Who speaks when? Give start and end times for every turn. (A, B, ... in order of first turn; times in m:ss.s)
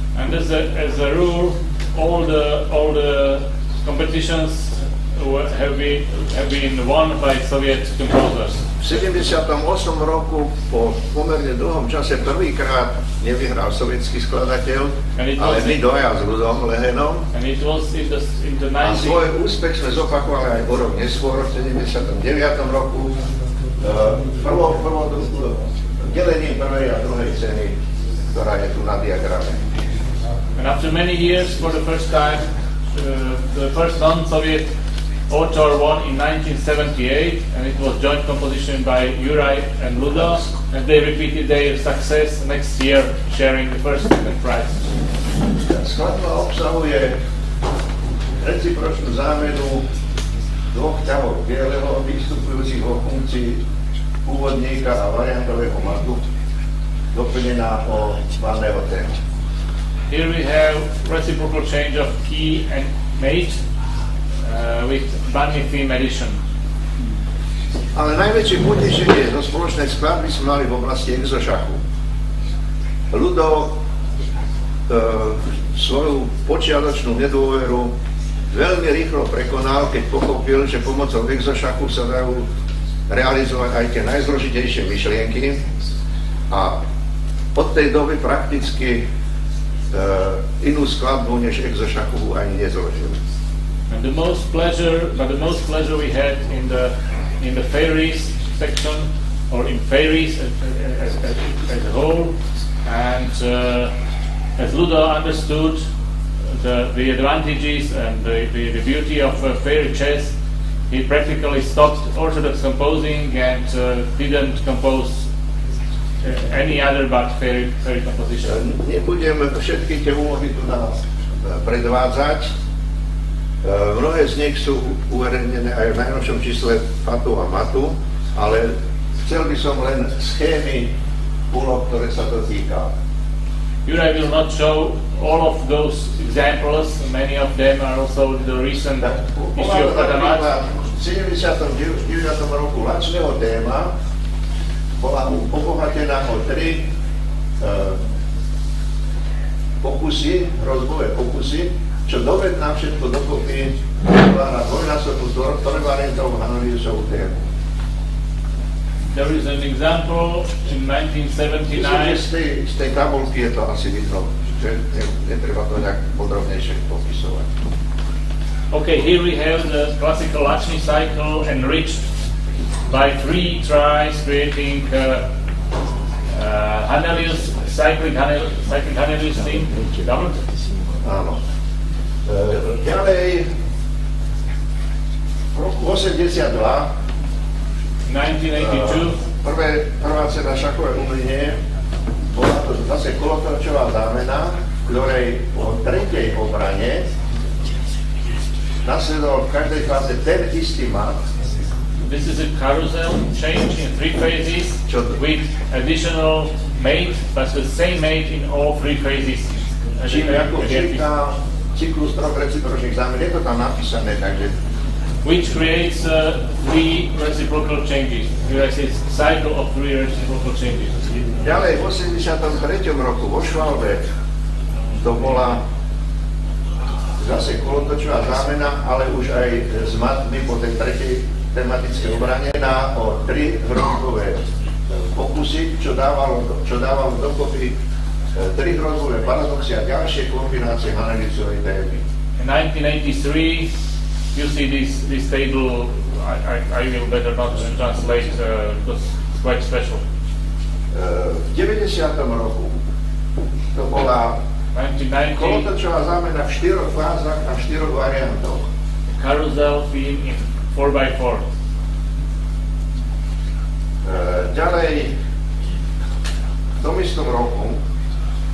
0:00.2-0:08.6 A
0:08.8-0:17.3 B
0:15.2-0:15.8 A
0:17.3-0:19.2 A
0:18.8-0:23.2 B
0:23.8-0:27.8 B
0:28.3-0:29.6 B
0:30.6-0:34.7 A
0:35.3-0:44.8 A
0:45.6-0:47.2 B
0:48.4-0:49.9 B
0:50.7-0:53.6 B
0:54.2-0:56.2 B
0:57.1-0:59.2 B
1:00.1-1:03.6 A
1:04.4-1:06.4 A
1:08.0-1:11.8 B
1:13.1-1:13.8 B
1:14.9-1:17.9 B
1:18.5-1:22.5 B
1:23.1-1:25.6 B
1:26.5-1:26.8 B
1:27.6-1:29.0 B
1:29.9-1:33.2 B
1:33.9-1:42.3 A
1:42.8-1:43.9 A
1:44.6-1:45.8 A
1:46.5-1:50.4 A
1:50.9-1:55.3 A
1:56.2-1:58.6 A
1:58.4-2:02.5 B
2:03.6-2:10.9 B
2:11.5-2:12.9 B
2:13.8-2:20.5 A
2:19.0-2:23.9 B
2:25.0-2:26.9 B
2:27.6-2:28.0 B
2:29.8-2:37.4 B
2:39.1-2:42.2 A
2:41.7-2:47.5 B
2:48.7-2:52.1 A
2:52.9-2:55.3 A
2:56.3-3:00.4 A
3:01.0-3:01.4 B
3:02.3-3:03.5 B
3:05.5-3:06.9 B
3:08.1-3:09.2 A
3:08.6-3:11.6 B
3:12.3-3:17.1 B
3:18.8-3:21.2 B
3:22.0-3:31.0 A
3:24.9-3:25.2 B
3:30.1-3:34.6 B
3:35.2-3:41.0 A
3:41.4-3:44.0 B
3:45.0-3:45.6 B
3:47.2-3:57.8 B
3:58.4-4:02.0 B
4:02.4-4:03.7 A
4:04.3-4:10.0 A
4:10.9-4:12.8 B
4:13.7-4:14.4 B
4:14.7-4:15.7 A
4:15.4-4:18.7 B
4:19.2-4:21.5 A
4:24.0-4:25.1 B
4:26.8-4:27.8 B